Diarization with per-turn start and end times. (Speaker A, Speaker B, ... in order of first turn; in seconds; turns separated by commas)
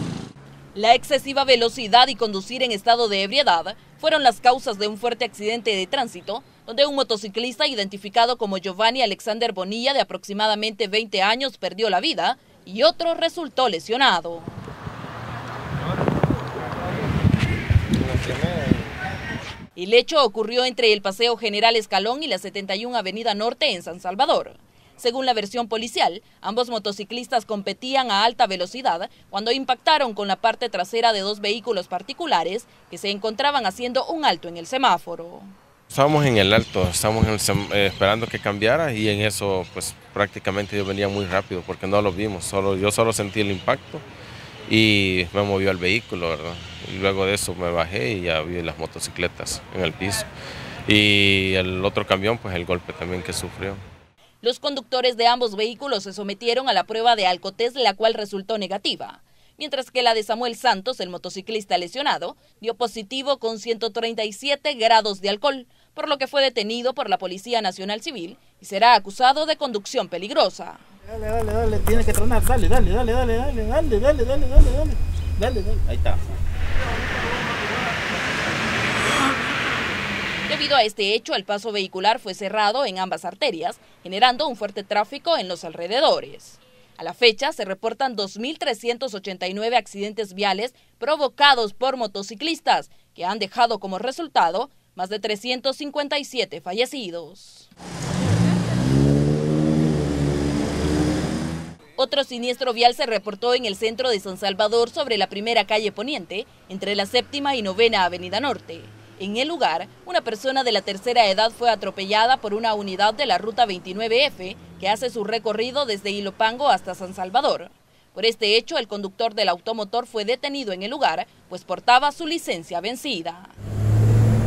Speaker A: 0.7-14.5, Speaker B: 18.0-18.7, Speaker A: 19.8-35.5, Speaker C: 35.9-44.0, Speaker C: 44.7-50.3, Speaker C: 50.9-53.8, Speaker A: 54.4-70.8, Speaker B: 71.1-76.3, Speaker A: 80.5-97.7, Speaker A: 102.0-123.5